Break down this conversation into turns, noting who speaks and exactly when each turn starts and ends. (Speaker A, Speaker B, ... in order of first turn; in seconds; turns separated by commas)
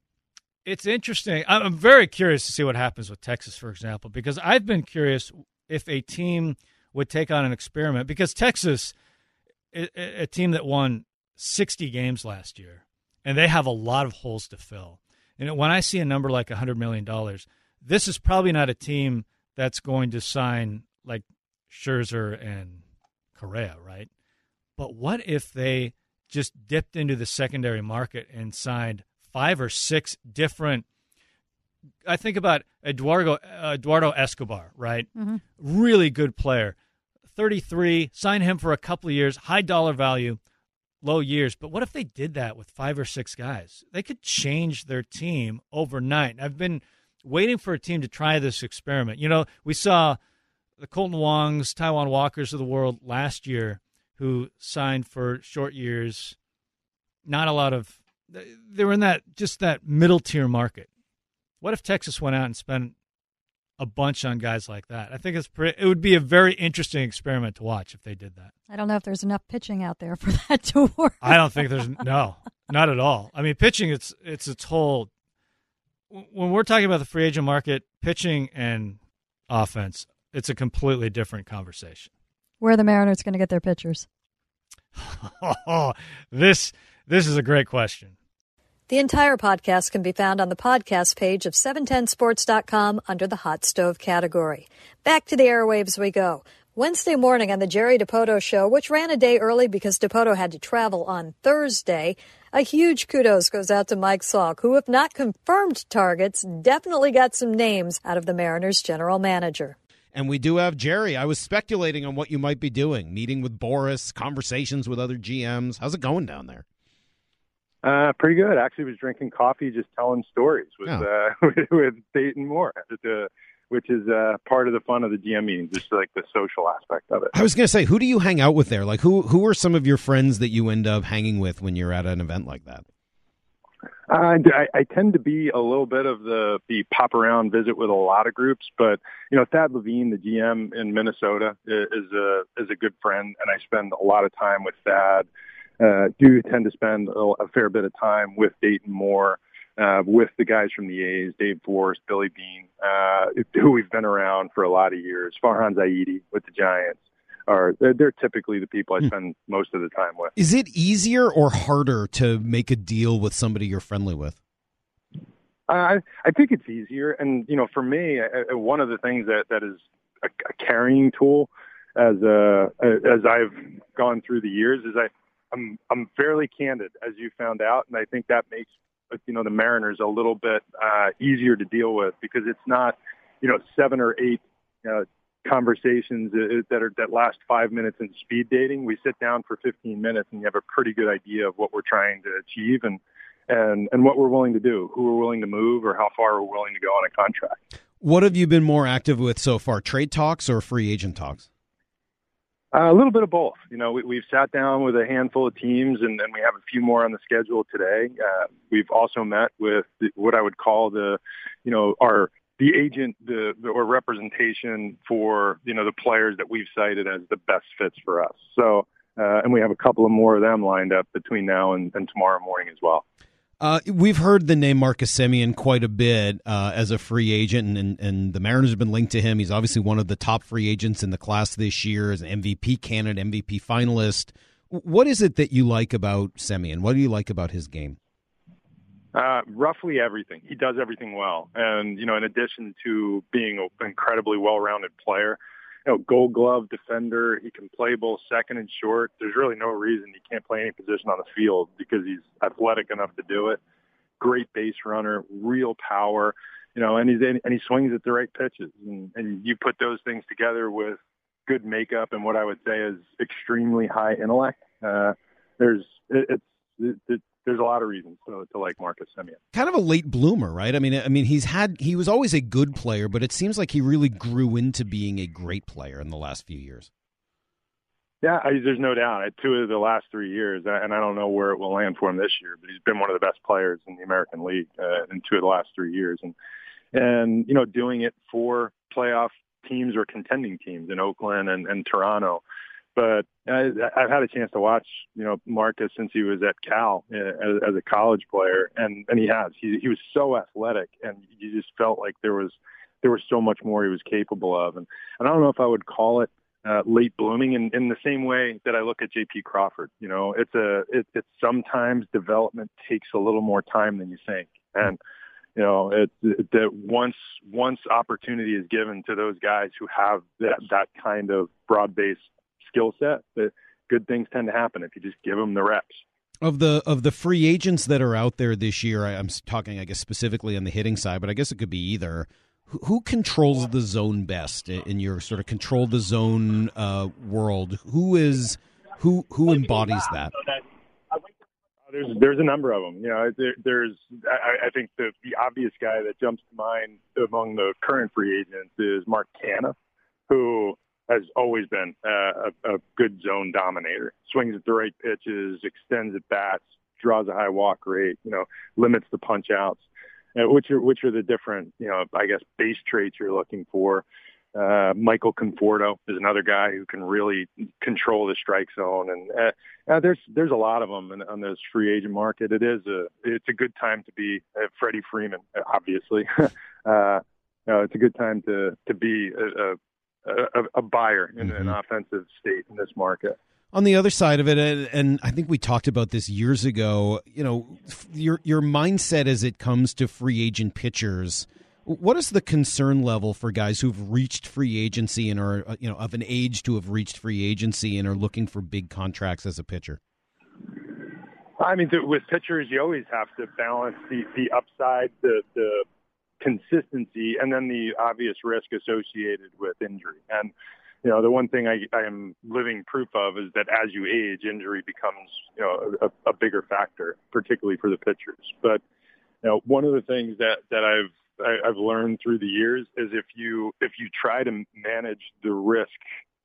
Speaker A: 0.6-8.9, Speaker A: 9.7-22.8, Speaker A: 23.4-24.1, Speaker A: 24.8-30.8, Speaker A: 32.0-36.7, Speaker B: 35.1-35.4, Speaker A: 37.3-40.4, Speaker A: 41.0-50.2, Speaker A: 50.8-56.4, Speaker A: 57.2-60.9, Speaker A: 61.6-62.9, Speaker A: 63.8-68.5, Speaker B: 68.7-72.1, Speaker A: 71.2-75.1, Speaker A: 76.1-82.1, Speaker B: 82.6-84.0, Speaker A: 85.0-88.1, Speaker C: 88.9-109.8, Speaker D: 110.1-116.6, Speaker E: 117.8-127.3, Speaker D: 127.3-132.8, Speaker E: 134.1-145.3, Speaker E: 145.8-160.3, Speaker D: 160.3-164.4, Speaker E: 165.7-197.6, Speaker D: 198.0-201.4, Speaker E: 202.7-223.0, Speaker D: 223.6-238.0, Speaker E: 239.1-253.6, Speaker E: 254.2-269.4, Speaker D: 269.5-276.9, Speaker E: 278.2-286.3, Speaker E: 286.9-292.4, Speaker E: 292.9-315.0, Speaker E: 315.6-326.0, Speaker D: 326.4-340.3, Speaker E: 341.9-349.7, Speaker E: 350.3-359.8, Speaker E: 360.4-364.0, Speaker E: 364.5-383.4, Speaker D: 381.4-381.8, Speaker D: 383.7-400.0, Speaker E: 401.6-405.8, Speaker E: 406.4-410.5, Speaker E: 411.0-418.8, Speaker E: 419.4-426.0